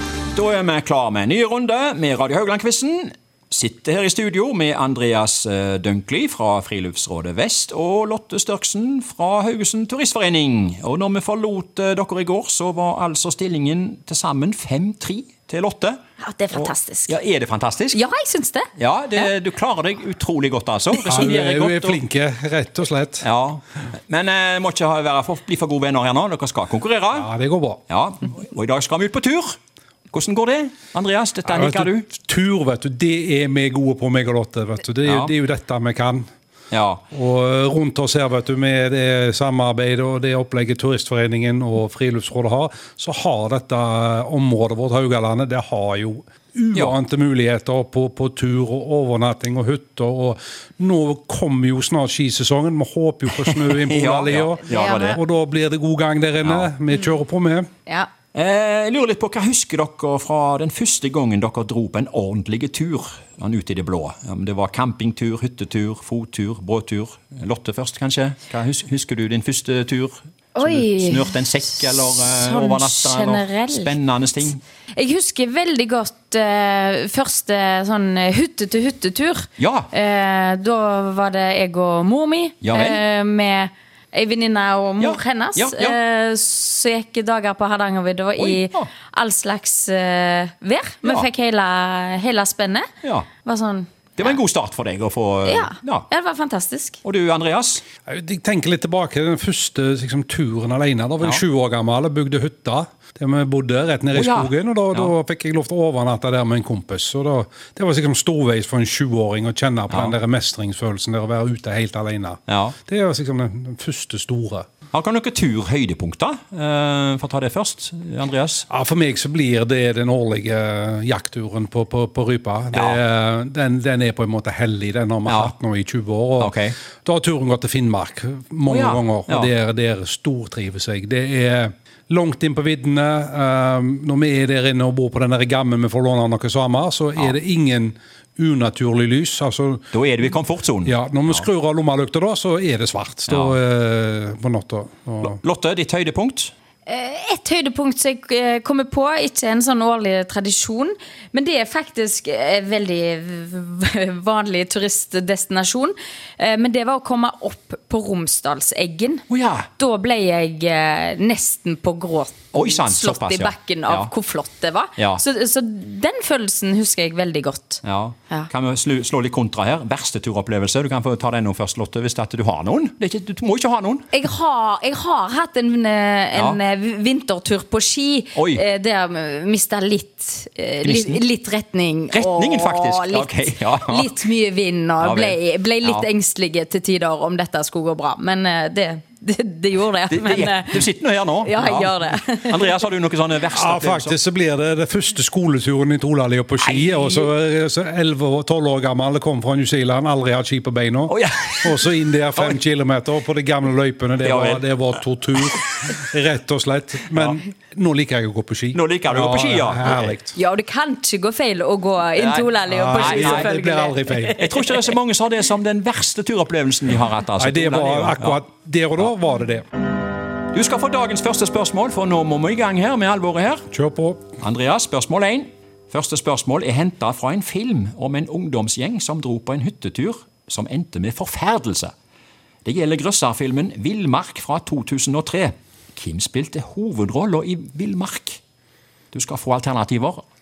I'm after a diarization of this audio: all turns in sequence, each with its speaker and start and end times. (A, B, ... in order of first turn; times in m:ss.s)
0:00.3-0:16.0 A
0:16.2-0:17.1 B
0:16.5-0:18.0 A
0:17.9-0:18.7 B
0:18.8-0:22.0 A
0:21.0-0:23.3 C
0:23.2-0:27.3 A
0:27.1-0:27.8 C
0:27.9-0:29.6 A
0:30.1-0:32.1 A
0:31.5-0:36.3 C
0:35.1-0:35.3 A
0:36.7-0:37.0 A
0:37.1-0:57.7 C
0:53.3-0:55.2 A
0:54.6-0:55.2 B
0:56.4-0:56.7 A
0:58.3-1:14.6 A
1:10.6-1:14.0 B
1:15.0-1:32.9 B
1:19.6-1:19.9 A
1:22.6-1:23.0 A
1:25.0-1:26.0 A
1:28.4-1:28.9 A
1:33.0-1:33.3 A
1:33.4-1:33.9 B
1:34.2-1:36.1 A
1:35.4-1:37.0 B
1:37.0-1:37.8 A
1:38.1-1:54.7 C
1:44.1-1:45.1 A
1:52.5-1:52.8 A
1:54.9-1:58.7 A
1:58.7-2:19.8 C
2:02.7-2:03.0 A
2:05.3-2:05.5 A
2:06.4-2:06.8 A
2:08.7-2:09.5 A
2:19.9-2:21.5 A
2:20.8-2:25.4 C
2:23.3-2:23.6 A
2:25.2-2:26.5 A
2:26.9-2:39.2 B
2:39.3-2:39.7 A
2:39.8-2:48.5 B
2:42.5-2:44.1 A
2:45.0-2:45.2 A
2:47.8-2:54.1 A
2:54.1-3:12.8 B
2:58.4-2:58.6 A
3:00.8-3:01.2 A
3:02.1-3:04.2 A
3:05.0-3:06.1 A
3:10.1-3:14.2 A
3:13.5-3:30.4 C
3:16.6-3:17.3 A
3:21.1-3:22.6 A
3:24.2-3:25.9 A
3:28.7-3:30.2 A
3:30.3-3:34.8 B
3:32.2-3:33.5 A
3:32.7-3:34.4 C
3:34.4-3:38.4 A
3:37.4-3:39.6 C
3:40.5-3:43.7 A
3:43.7-3:44.2 C
3:44.4-3:51.9 A
3:52.6-3:58.4 A
3:59.1-4:00.2 A